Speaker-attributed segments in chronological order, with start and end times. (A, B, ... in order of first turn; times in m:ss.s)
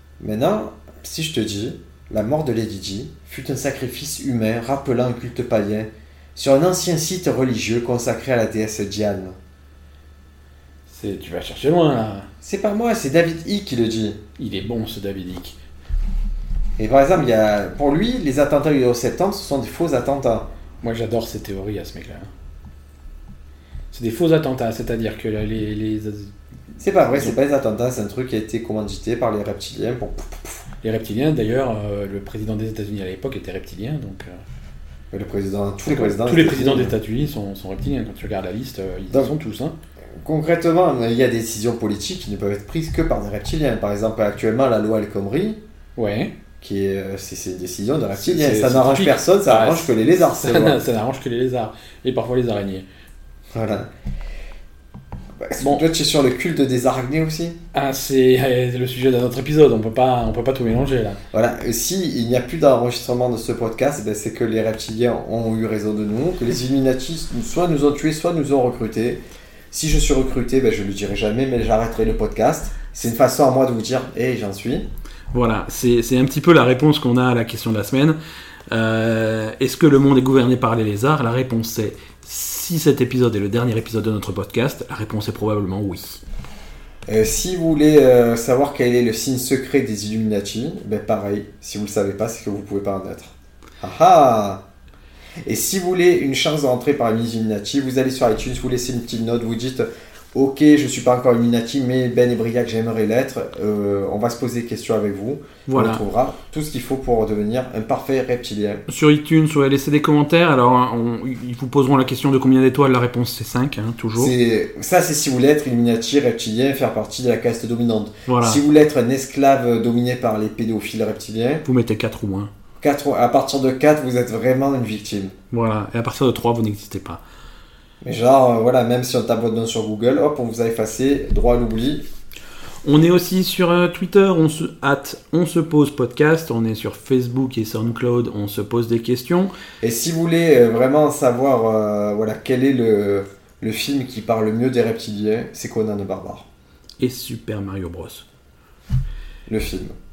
0:00.2-0:09.4 A
0:10.9-0:12.3 B
0:12.4-0:14.2 A
0:14.4-0:15.6 B
0:16.8-0:20.5 A
0:20.8-0:22.3 B
0:23.9-0:26.3 B
0:26.8-0:30.6 A
0:27.0-0:27.4 B
0:30.8-0:34.4 B
0:35.1-0:36.9 A
0:35.9-0:39.8 B
0:40.2-0:45.6 A
0:46.0-0:46.3 B
0:46.6-0:50.8 A
0:48.2-0:52.8 B
0:53.5-0:53.9 A
0:55.4-0:57.6 A
0:55.6-0:55.8 B
0:57.7-1:01.2 B
1:01.3-1:14.9 A
1:15.3-1:18.2 B
1:18.7-1:26.2 B
1:27.1-1:34.6 A
1:35.4-1:48.8 A
1:45.7-1:46.0 B
1:48.9-1:54.3 B
1:54.2-2:01.6 A
1:58.3-1:58.6 B
2:01.6-2:02.5 B
2:02.8-2:05.3 A
2:05.5-2:07.2 B
2:08.0-2:12.0 A
2:12.8-2:19.5 B
2:19.8-2:26.5 A
2:27.0-2:28.2 B
2:29.5-2:29.9 A